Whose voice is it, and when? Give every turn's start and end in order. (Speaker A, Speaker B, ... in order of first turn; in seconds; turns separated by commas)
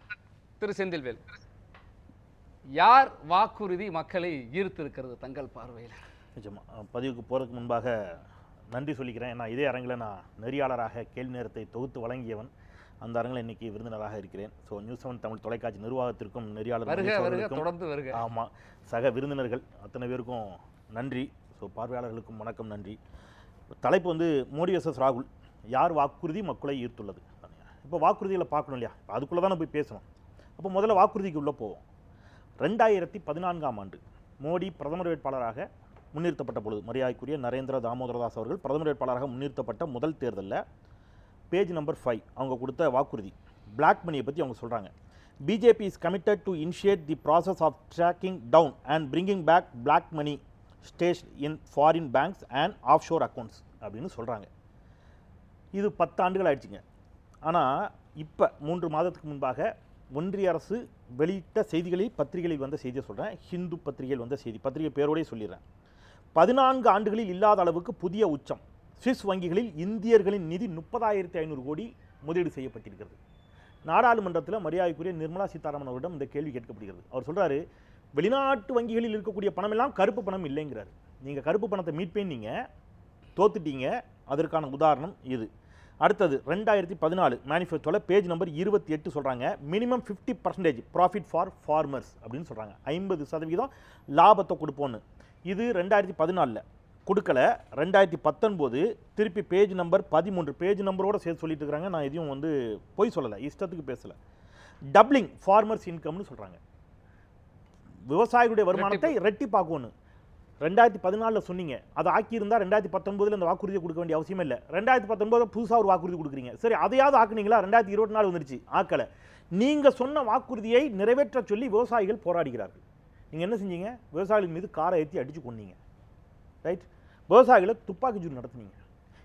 Speaker A: 0.6-1.2, Speaker A: 2.8-6.0, Speaker B: 6.4-8.2, Speaker B: 8.7-12.5, Speaker B: 13.0-23.0, Speaker A: 16.9-18.2, Speaker B: 23.8-30.0, Speaker B: 30.6-31.8, Speaker B: 32.6-40.6, Speaker B: 41.5-44.9, Speaker B: 45.5-54.5, Speaker B: 55.8-56.8, Speaker B: 57.5-65.6, Speaker B: 66.3-73.2, Speaker B: 73.9-77.6, Speaker B: 78.2-82.5, Speaker B: 83.4-85.5, Speaker B: 86.0-104.2, Speaker B: 104.9-106.6, Speaker B: 108.1-109.9, Speaker A: 108.7-109.1, Speaker B: 110.6-119.1, Speaker B: 119.6-125.8, Speaker B: 126.6-128.8